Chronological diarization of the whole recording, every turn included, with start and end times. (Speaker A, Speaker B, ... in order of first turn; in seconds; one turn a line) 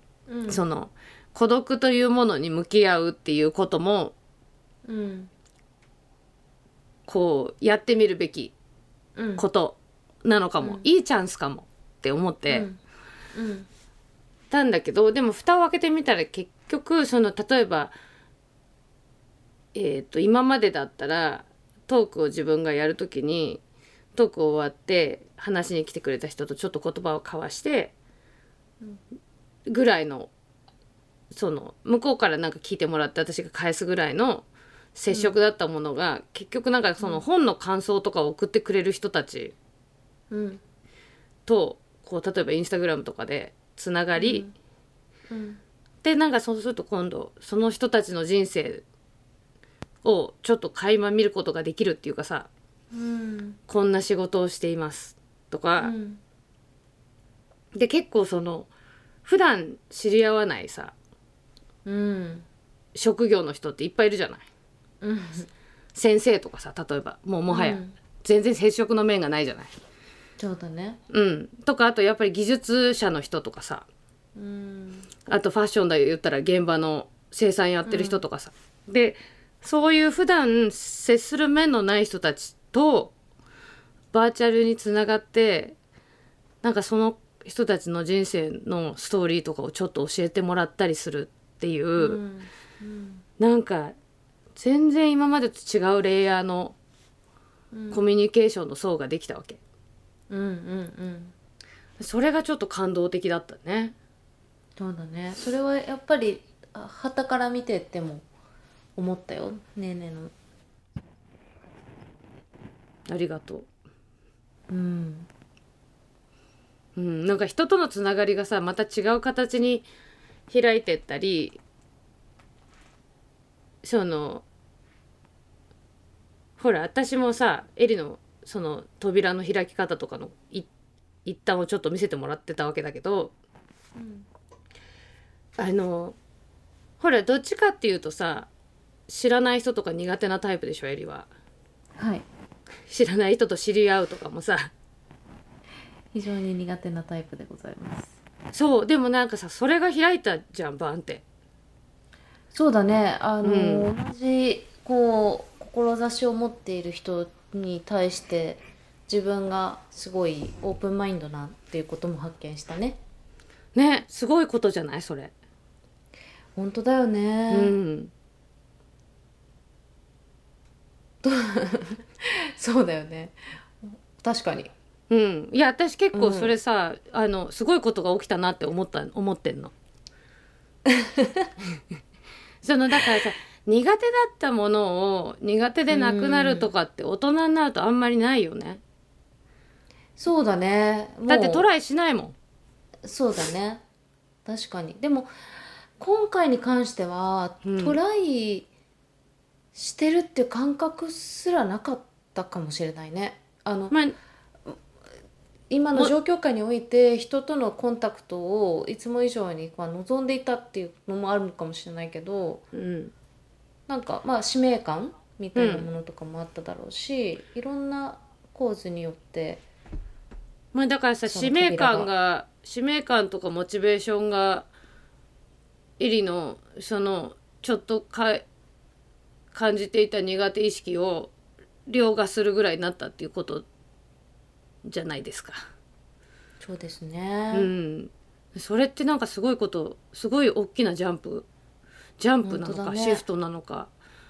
Speaker A: 0.3-0.6
Speaker B: 0.5-4.1
Speaker A: 4.8-5.3
Speaker B: 7.1-8.5
Speaker A: 9.2-9.4
Speaker B: 9.4-12.7
Speaker A: 12.5-12.8
Speaker A: 13.3-13.7
Speaker B: 14.5-17.9
Speaker B: 19.7-23.6
Speaker B: 24.1-27.9
Speaker B: 29.7-30.3
Speaker B: 31.3-39.5
Speaker A: 35.1-35.4
Speaker A: 40.3-40.6
Speaker B: 41.5-44.5
Speaker A: 44.2-44.5
Speaker A: 45.3-45.6
Speaker B: 46.0-48.8
Speaker B: 50.0-52.5
Speaker A: 52.9-53.6
Speaker B: 53.7-55.9
Speaker A: 55.8-56.2
Speaker B: 57.7-58.7
Speaker B: 59.2-60.9
Speaker A: 61.9-62.5
Speaker B: 63.0-64.5
Speaker A: 65.0-65.5
Speaker B: 66.0-69.7
Speaker A: 67.5-68.0
Speaker A: 70.4-71.0
Speaker B: 71.1-73.9
Speaker A: 74.4-75.1
Speaker B: 75.3-83.1
Speaker A: 77.9-78.2
Speaker B: 84.1-85.8
Speaker B: 86.6-92.2
Speaker A: 92.0-93.2
Speaker B: 93.4-94.0
Speaker B: 94.6-96.8
Speaker A: 97.7-98.0
Speaker B: 97.9-99.6
Speaker A: 100.3-101.3
Speaker B: 102.0-104.0
Speaker A: 104.8-108.2
Speaker A: 109.0-110.3
Speaker B: 113.1-113.7
Speaker A: 114.7-115.3
Speaker B: 117.0-119.9
Speaker B: 120.5-121.6
Speaker B: 123.8-124.4
Speaker B: 126.6-130.7
Speaker B: 131.2-133.3
Speaker A: 134.0-134.3
Speaker B: 135.6-136.2
Speaker B: 137.0-138.5
Speaker B: 139.1-141.3
Speaker A: 142.0-142.3
Speaker B: 142.9-144.7
Speaker A: 146.1-148.2
Speaker B: 148.5-151.2
Speaker A: 152.5-163.0
Speaker B: 153.4-153.9
Speaker B: 163.8-165.3
Speaker A: 166.6-167.7
Speaker B: 167.5-168.1
Speaker A: 171.2-174.7
Speaker B: 175.1-179.7
Speaker A: 176.1-176.5
Speaker A: 180.9-181.5
Speaker B: 182.6-188.8
Speaker A: 185.9-186.7
Speaker A: 190.2-191.7
Speaker B: 191.3-192.4
Speaker A: 193.0-193.8
Speaker A: 194.4-195.3
Speaker A: 196.0-198.7
Speaker B: 197.6-198.0
Speaker A: 199.7-204.0
Speaker B: 203.9-204.2
Speaker A: 205.7-212.6
Speaker B: 212.7-213.1
Speaker A: 213.9-219.6
Speaker B: 215.6-215.9
Speaker B: 220.7-224.7
Speaker A: 221.3-222.1
Speaker B: 226.0-228.4
Speaker B: 229.5-231.3
Speaker B: 231.9-233.7
Speaker B: 234.8-235.7
Speaker A: 236.6-237.7
Speaker B: 237.5-241.5
Speaker B: 242.2-243.9
Speaker A: 242.4-243.2